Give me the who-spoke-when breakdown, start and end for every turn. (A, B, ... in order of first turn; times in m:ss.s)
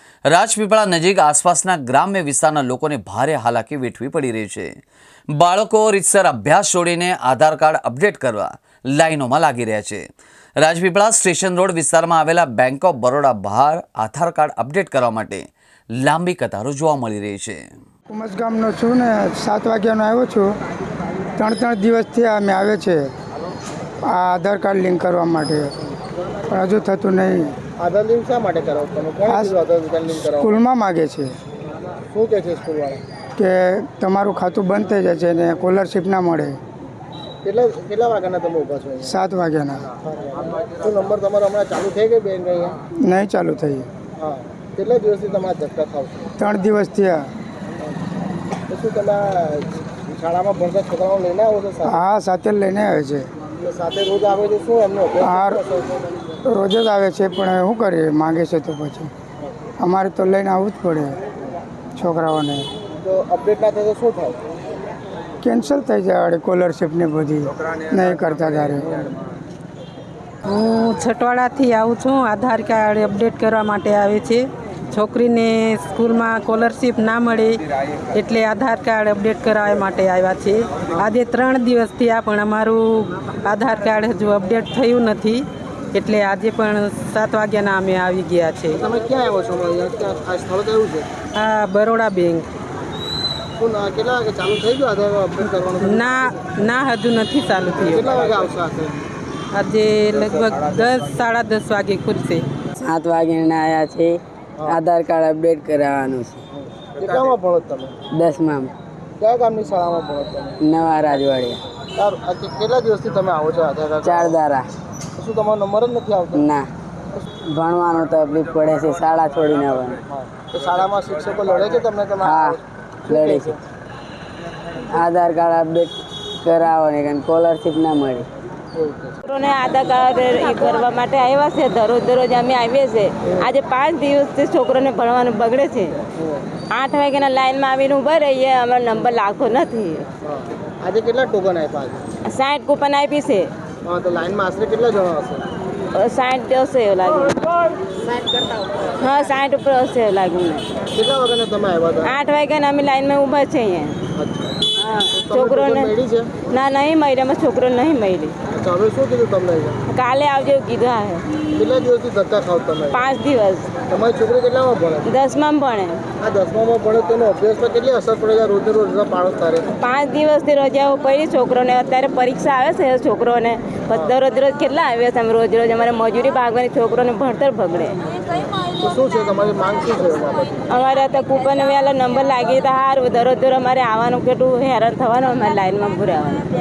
0:00.3-0:04.7 A
0:05.3-0:10.1 A
0:10.6-0:17.6 A
0:18.1-0:20.5 B
0:21.4-0:23.0 B
0:24.1-0:25.7 B
0:26.5-0:27.6 B
0:27.8-0:30.6 C
0:30.2-0:31.3 B
0:32.1-0:33.0 C
0:33.4-0:36.6 B
0:37.4-0:39.2 C
0:39.0-0:39.8 B
0:40.0-0:42.8 C
0:43.0-0:43.9 B
0:44.2-0:46.3 C
0:46.4-0:47.3 B
0:48.7-0:52.0 C
0:51.9-0:53.3 B
0:53.6-0:56.1 C
0:55.2-0:55.6 B
0:56.5-0:59.1 B
0:59.8-1:01.2 B
1:02.0-1:02.7 B
1:03.0-1:04.4 C
1:05.4-1:08.9 B
1:10.5-1:28.8 D
1:28.7-1:31.1 C
1:31.4-1:32.5 D
1:33.6-1:36.3 C
1:35.8-1:38.2 D
1:37.8-1:39.1 C
1:39.5-1:42.5 D
1:42.8-1:46.4 E
1:46.6-1:48.0 C
1:48.1-1:48.7 E
1:49.2-1:50.6 C
1:50.6-1:51.6 E
1:52.0-1:54.4 C
1:54.0-1:54.7 E
1:55.2-1:56.4 C
1:56.3-1:56.7 E
1:57.4-2:00.0 E
2:00.2-2:03.6 C
2:02.2-2:03.6 E
2:04.9-2:08.3 E
2:08.8-2:09.2 C
2:09.2-2:16.0 F
2:16.7-2:20.1 F
2:20.2-2:22.0 C
2:22.2-2:23.5 F
2:23.8-2:25.4 C
2:26.0-2:27.6 F
2:29.0-2:30.7 F
2:30.9-2:32.2 C
2:32.0-2:34.0 F
2:34.2-2:34.6 C
2:34.8-2:35.9 F
2:35.2-2:36.4 C
2:36.5-2:38.4 F
2:38.5-2:39.8 C
2:39.9-2:41.3 F
2:41.5-2:43.0 C
2:42.9-2:43.7 F
2:43.9-2:45.1 C
2:45.1-2:46.0 F
2:46.2-2:49.7 C
2:49.8-2:58.0 F
2:58.8-3:00.6 C
3:00.7-3:06.5 F